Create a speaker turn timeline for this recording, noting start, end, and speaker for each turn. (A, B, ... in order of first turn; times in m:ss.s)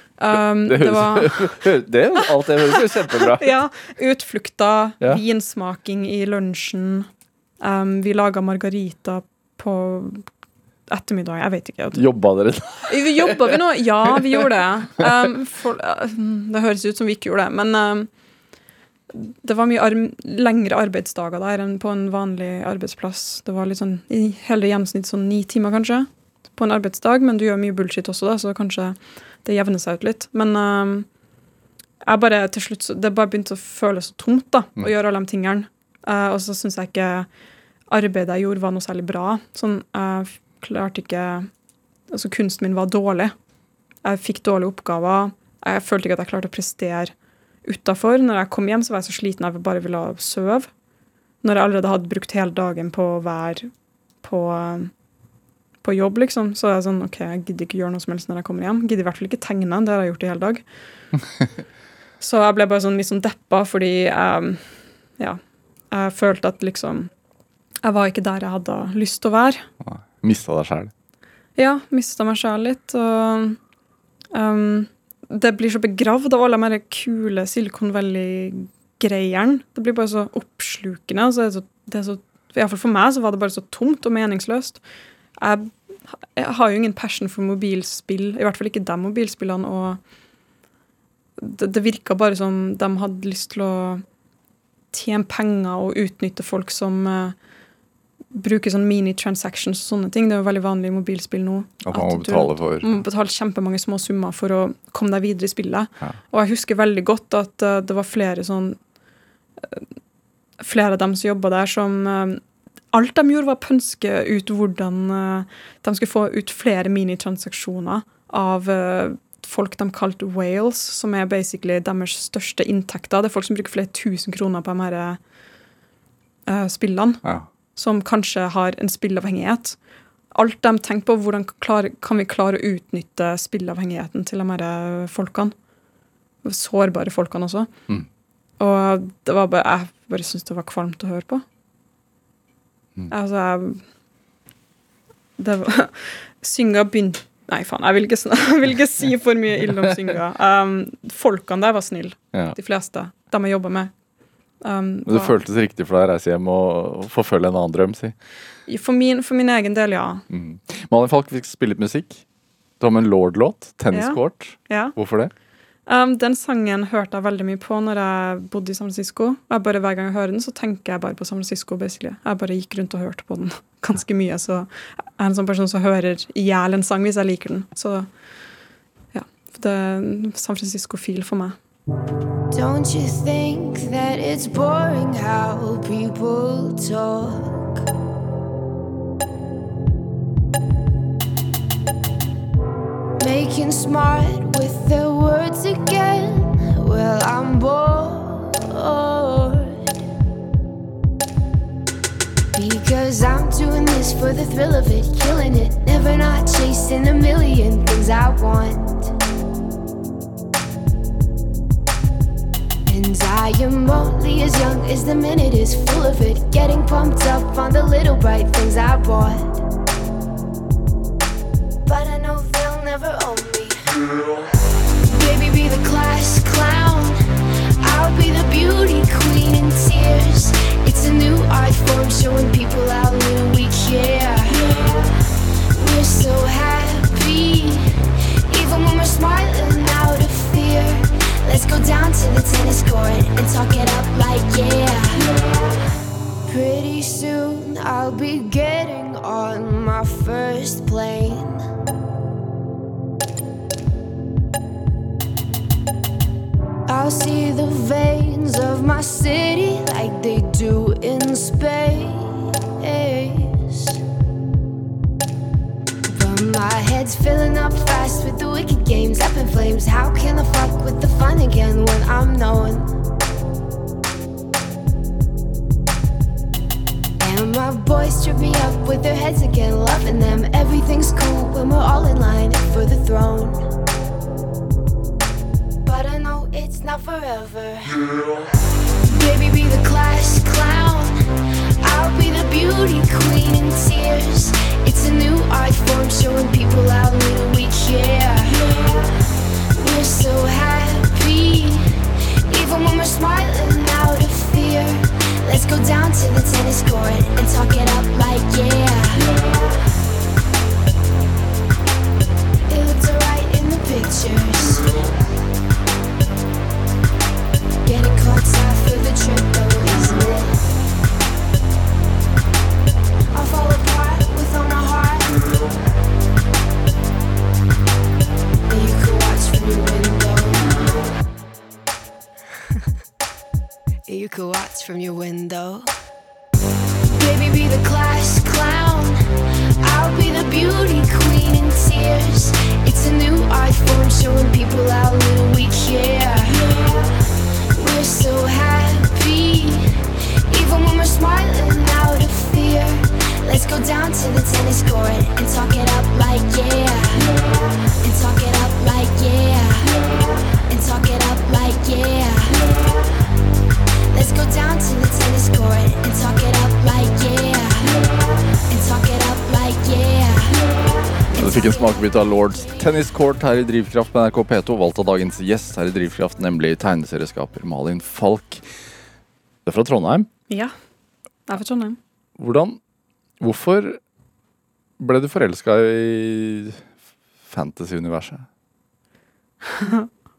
0:00.2-0:01.6 A
0:00.3-0:03.6 B
0:03.1-0:07.1 A
0:07.6-0:10.2 A
0:10.9-0:12.1 A
0:11.9-0:14.4 B
0:12.9-0:18.1 A
0:19.1-0:31.1 A
0:32.0-0:37.3 A
0:37.9-0:41.5 A
0:42.1-0:43.3 A
0:44.0-0:47.1 A
0:47.6-0:50.7 A
0:51.4-0:53.7 A
0:54.2-0:54.9 A
0:55.8-1:00.6 A
1:02.2-1:05.4 A
1:05.9-1:07.1 A
1:07.8-1:09.6 A
1:09.8-1:10.9 B
1:11.6-1:13.6 A
1:14.3-1:24.8 A
1:25.4-1:25.7 A
1:26.2-1:30.0 A
1:31.4-1:34.0 A
1:34.9-1:37.4 A
1:38.3-1:48.8 A
1:41.8-1:43.0 B
1:50.6-1:52.4 A
1:52.9-2:05.2 A
2:06.5-2:07.2 A
2:07.8-2:09.8 A
2:10.3-2:15.5 A
2:16.4-2:17.7 A
2:18.6-2:21.4 A
2:23.1-2:23.8 A
2:25.4-2:33.9 A
2:34.6-2:35.4 A
2:35.1-2:38.2 B
2:38.7-2:40.2 A
2:40.3-2:42.2 B
2:42.8-2:45.3 B
2:43.9-2:45.0 A
2:45.9-2:58.1 A
2:59.1-3:01.6 A
3:02.5-3:07.8 C
3:13.2-3:19.8 C
3:22.5-3:29.1 C
3:32.9-3:39.6 C
3:41.9-3:44.0 C
3:45.1-3:47.2 C
3:47.8-3:55.1 C
3:55.8-3:57.9 C
3:58.5-4:05.2 C
4:06.5-4:11.6 C
4:16.9-4:24.0 C
4:26.1-4:32.9 C
4:37.2-4:43.6 C
4:45.9-4:48.1 C
4:49.1-4:51.2 C
4:51.8-4:59.1 C
4:59.8-5:01.9 C
5:02.5-5:09.5 C
5:12.7-5:15.1 C
5:17.8-5:20.6 C
5:23.3-5:25.5 C
5:28.7-5:30.8 C
5:34.1-5:35.9 C
5:37.1-5:39.2 C
5:39.8-5:47.0 C
5:47.8-5:49.9 C
5:50.5-5:57.3 C
5:58.0-6:00.0 C
6:00.7-6:02.7 C
6:04.1-6:08.0 C
6:08.7-6:10.7 C
6:11.3-6:12.7 C
6:11.4-6:18.6 B
6:19.6-6:20.3 B
6:21.5-6:22.0 A
6:22.4-6:22.8 B
6:23.4-6:24.0 B
6:25.0-6:26.8 B
6:27.5-6:28.5 B
6:29.7-6:30.1 A